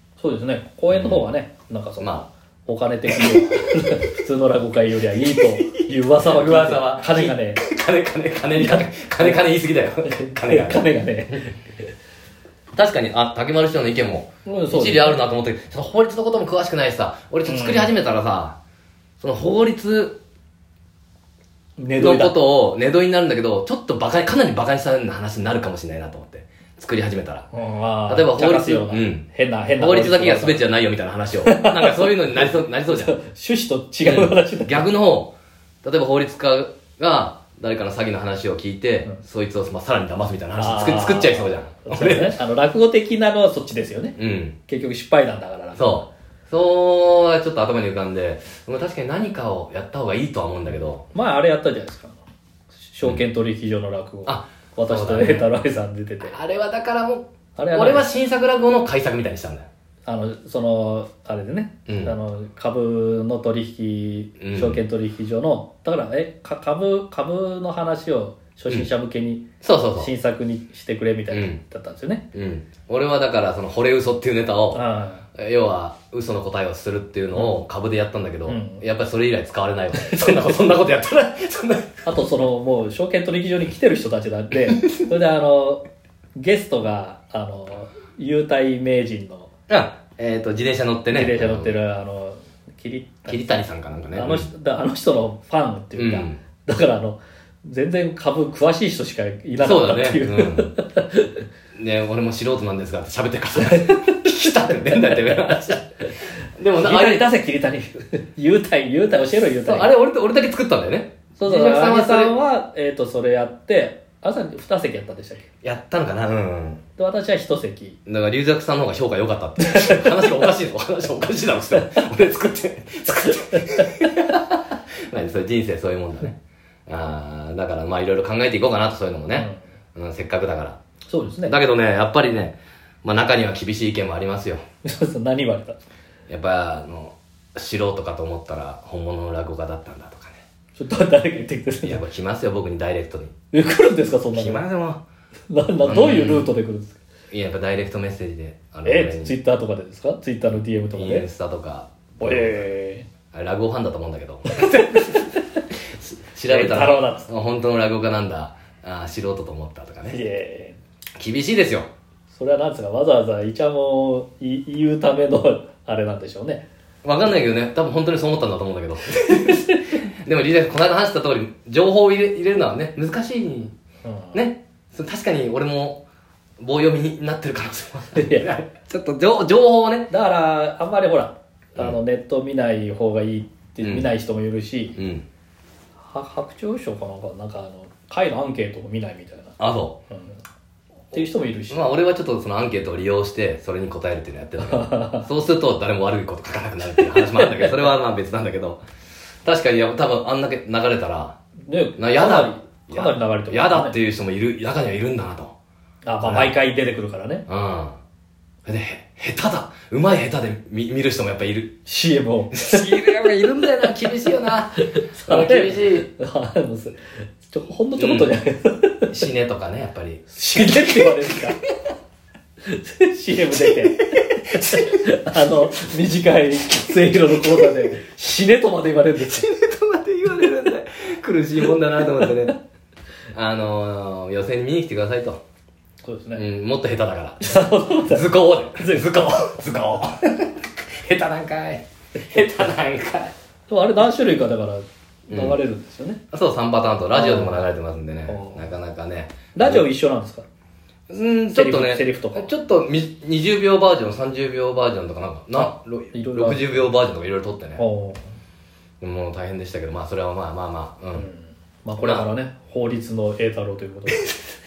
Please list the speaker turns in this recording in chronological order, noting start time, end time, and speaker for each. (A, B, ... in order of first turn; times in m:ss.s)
0:00.2-0:07.6 A
0:00.9-0:01.3 B
0:02.0-0:02.3 B
0:03.2-0:03.6 B
0:06.2-0:11.4 B
0:08.5-0:09.4 A
0:10.0-0:11.6 A
0:12.7-0:18.6 B
0:14.4-0:15.2 A
0:17.5-0:18.0 A
0:19.2-0:20.2 B
0:21.8-0:22.4 A
0:22.0-0:27.5 B
0:27.5-0:30.6 A
0:28.1-0:29.2 B
0:29.8-0:33.2 B
0:31.4-0:34.9 A
0:34.0-0:42.4 B
0:40.6-0:46.1 A
0:44.2-0:44.6 B
0:45.8-0:51.0 B
0:51.1-0:52.2 A
0:52.7-0:56.4 A
0:54.3-0:55.5 B
0:56.2-0:59.7 B
0:57.6-0:58.1 A
1:00.1-1:12.3 A
1:01.9-1:02.2 B
1:04.4-1:04.8 B
1:09.6-1:10.1 B
1:11.3-1:11.6 B
1:12.3-1:14.8 B
1:14.7-1:15.3 A
1:15.4-1:22.2 B
1:18.5-1:18.8 A
1:20.0-1:20.6 A
1:22.1-1:25.8 A
1:26.4-1:29.5 A
1:29.7-1:31.8 B
1:31.1-1:33.5 A
1:33.3-1:34.5 B
1:34.1-1:41.4 A
1:36.0-1:36.4 B
1:39.6-1:40.7 B
1:41.7-1:46.0 B
1:43.6-1:45.3 A
1:46.6-1:47.3 B
1:46.8-1:49.9 A
1:49.6-1:52.4 B
1:51.4-1:55.5 A
1:55.6-1:56.8 B
1:57.0-1:58.0 A
1:58.1-2:10.8 B
1:59.7-2:00.3 A
2:09.3-2:09.6 A
2:11.1-2:11.5 A
2:11.4-2:14.6 B
2:14.8-2:15.8 A
2:16.3-2:20.4 B
2:20.8-2:22.0 A
2:21.8-2:23.3 B
2:23.5-2:24.6 A
2:24.3-2:25.0 B
2:25.5-2:27.0 A
2:25.8-2:26.5 B
2:27.3-2:29.4 B
2:28.8-2:31.3 A
2:31.0-2:32.6 B
2:32.2-2:33.1 A
2:33.3-2:35.3 B
2:34.6-2:35.6 A
2:36.0-2:40.2 B
2:36.5-2:37.3 A
2:40.1-2:40.8 A
2:41.2-2:41.9 B
2:42.3-2:46.7 A
2:47.0-2:53.8 B
2:49.3-2:49.8 A
2:54.0-2:54.4 A
2:54.3-2:56.1 B
2:56.6-3:00.1 B
2:58.2-2:58.5 A
3:00.1-3:05.0 A
3:03.8-3:04.1 B
3:05.0-3:05.3 B
3:06.1-3:09.6 A
3:09.6-3:10.0 B
3:10.1-3:10.4 A
3:11.1-3:11.8 A
3:11.1-3:18.8 B
3:14.6-3:15.2 A
3:17.1-3:17.7 A
3:19.4-3:21.4 B
3:21.6-3:24.0 A
3:22.0-3:25.6 B
3:26.1-3:27.4 A
3:26.2-3:26.6 B
3:27.5-3:28.0 B
3:28.7-3:31.8 B
3:31.9-3:32.9 A
3:32.5-3:36.1 B
3:34.9-3:39.1 A
3:38.0-3:38.4 B
3:39.1-3:41.6 B
3:40.3-3:41.6 A
3:42.7-3:49.5 A
3:43.6-3:44.9 B
3:49.2-3:52.6 B
3:53.3-3:55.4 B
3:56.0-3:56.4 A
3:56.3-4:03.3 B
3:57.4-3:59.8 A
4:03.7-4:06.2 A
4:05.3-4:05.6 B
4:06.3-4:09.9 B
4:07.1-4:07.7 A
4:08.3-4:08.7 A
4:09.6-4:10.5 A
4:11.1-4:17.8 B
4:11.5-4:12.5 A
4:15.6-4:16.8 A
4:17.8-4:18.2 A
4:19.0-4:21.3 B
4:21.2-4:24.3 A
4:22.0-4:22.3 B